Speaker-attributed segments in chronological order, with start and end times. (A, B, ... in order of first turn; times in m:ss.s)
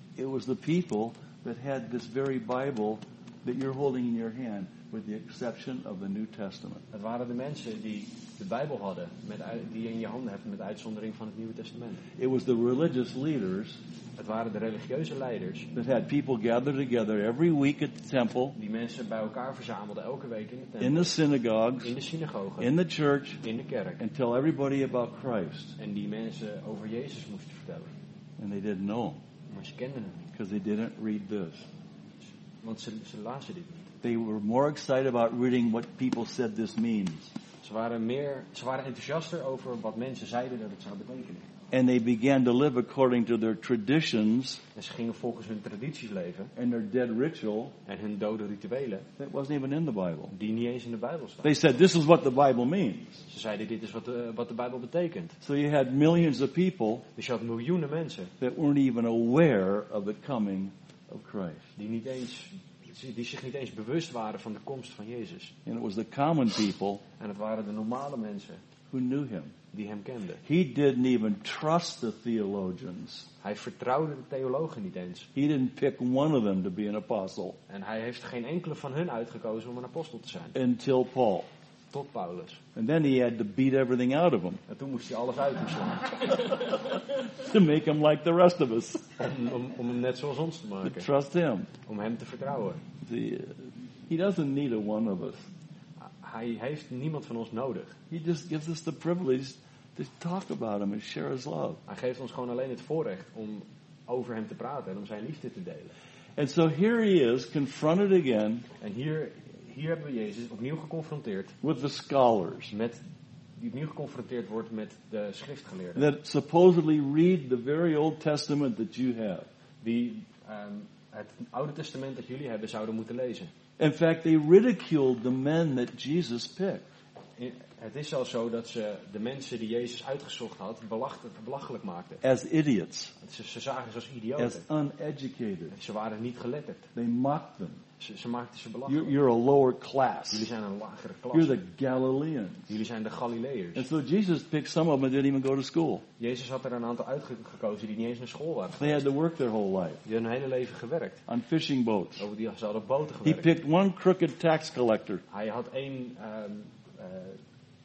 0:00.2-0:06.8 A
0:06.9-0:12.0 B
0:12.2-0:13.8 A
0:14.2-0:15.7 B
0:15.8-0:18.6 A
0:18.6-0:21.2 B
0:20.8-0:22.0 A
0:21.8-0:22.7 B
0:22.6-0:23.4 A
0:23.4-0:24.0 B
0:24.0-0:25.8 A
0:25.8-0:27.9 B
0:28.4-0:29.2 A
0:29.5-0:30.3 B
0:30.3-0:31.7 A
0:32.6-0:33.9 B
0:34.0-0:37.3 A
0:37.6-0:41.5 B
0:41.7-0:44.6 A
0:44.8-0:46.5 B
0:46.6-0:47.8 A
0:47.9-0:49.1 B
0:49.2-0:50.3 A
0:50.3-0:51.6 B
0:51.4-0:53.2 A
0:53.3-0:55.4 B
0:55.4-0:57.1 A
0:57.2-0:58.3 B
0:58.4-1:01.7 A
1:01.8-1:05.5 B
1:05.6-1:07.0 A
1:07.2-1:08.6 B
1:08.9-1:09.6 A
1:09.7-1:10.4 B
1:10.4-1:13.3 A
1:13.4-1:15.3 B
1:15.4-1:17.6 A
1:17.7-1:20.6 B
1:20.5-1:21.5 A
1:21.9-1:22.6 B
1:22.8-1:24.6 A
1:24.7-1:26.3 B
1:26.6-1:29.2 A
1:29.2-1:31.1 B
1:30.8-1:31.7 A
1:31.8-1:32.8 B
1:33.0-1:35.5 A
1:36.0-1:38.0 B
1:38.1-1:41.8 A
1:41.9-1:45.9 B
1:46.4-1:48.7 A
1:48.8-1:51.6 B
1:51.6-1:52.7 A
1:52.7-1:53.0 B
1:53.6-1:56.1 B
1:56.0-1:59.5 A
1:59.8-2:03.5 B
2:03.8-2:06.8 A
2:07.4-2:12.2 B
2:12.2-2:13.1 A
2:13.2-2:14.6 B
2:14.4-2:15.7 A
2:15.7-2:16.9 B
2:17.0-2:17.8 A
2:18.0-2:19.2 B
2:18.9-2:20.5 A
2:20.3-2:21.6 B
2:21.3-2:22.7 A
2:22.7-2:23.9 B
2:23.8-2:26.0 A
2:26.2-2:29.1 B
2:28.8-2:30.0 A
2:30.0-2:31.2 B
2:31.3-2:32.2 A
2:32.2-2:33.5 B
2:33.2-2:35.2 A
2:35.3-2:37.4 B